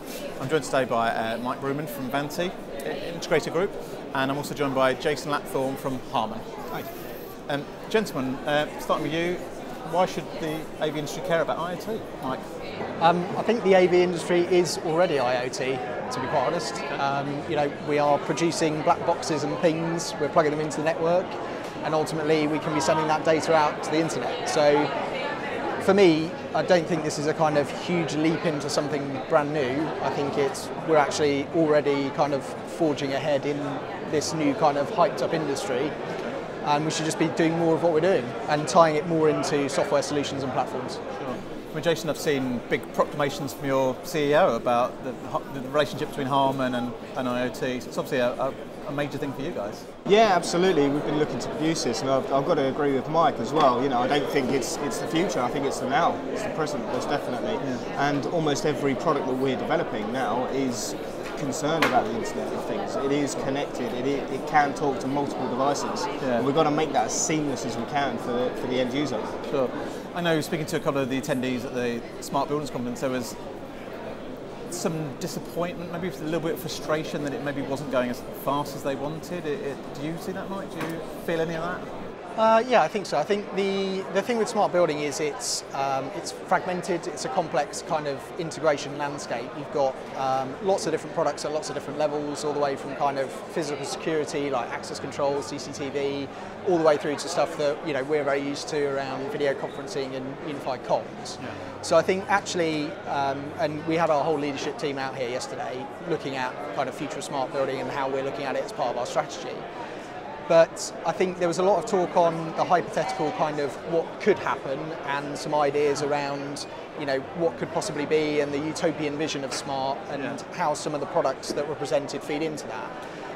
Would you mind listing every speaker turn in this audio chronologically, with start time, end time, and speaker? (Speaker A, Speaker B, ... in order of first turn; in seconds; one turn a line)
Speaker A: 0.4-6.4
Speaker A: 7.5-12.4
Speaker B: 13.0-24.9
Speaker B: 25.8-35.9
Speaker A: 36.1-36.4
Speaker B: 36.6-41.0
Speaker A: 41.2-49.9
Speaker C: 50.1-69.3
Speaker A: 66.2-66.5
Speaker A: 69.5-73.3
Speaker A: 74.7-81.9
Speaker B: 82.3-109.6
Speaker B: 110.5-122.9